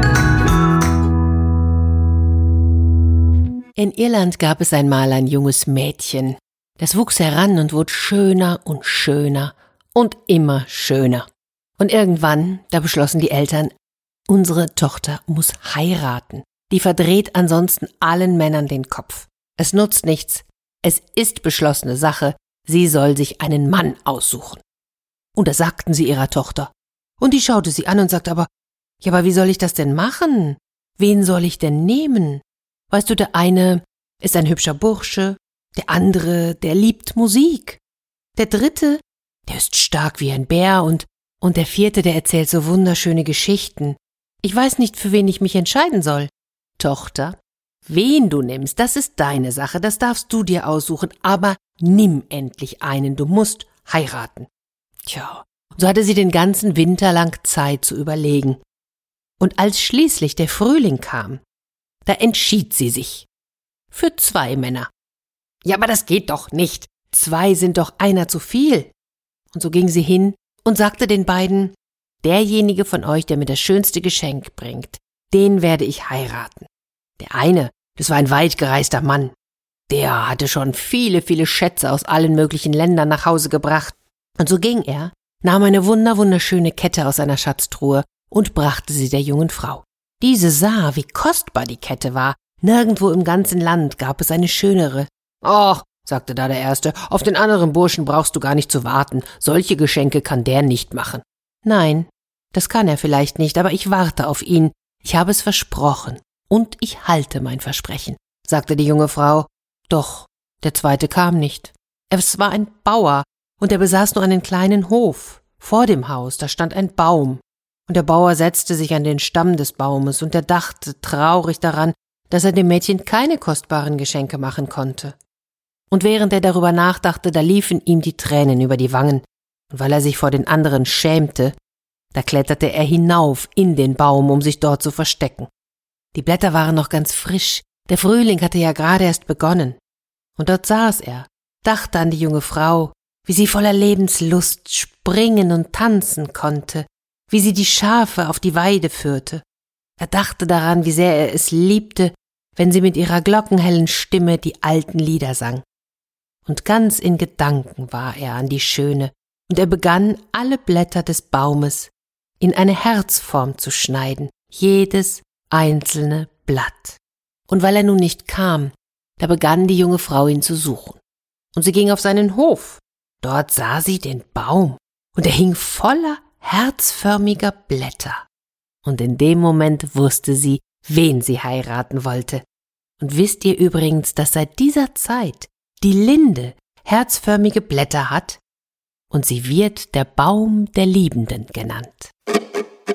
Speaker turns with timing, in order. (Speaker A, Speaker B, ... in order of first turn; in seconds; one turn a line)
Speaker A: 3.8-11.3
Speaker A: 11.8-13.7
Speaker A: 14.3-24.6
Speaker A: 25.4-28.5
Speaker A: 29.0-37.8
Speaker A: 38.4-54.5
Speaker A: 55.1-58.6
Speaker A: 59.4-61.4
Speaker A: 62.0-63.3
Speaker A: 63.9-64.9
Speaker A: 65.6-68.9
Speaker A: 69.5-79.3
Speaker A: 79.9-125.2
Speaker A: 125.9-131.6
Speaker A: 132.1-135.5
Speaker A: 136.1-139.8
Speaker A: 140.4-149.4
Speaker A: 150.0-155.7
Speaker A: 156.4-171.0
Speaker A: 171.5-178.2
Speaker A: 178.8-182.4
Speaker A: 183.0-188.4
Speaker A: 189.1-192.1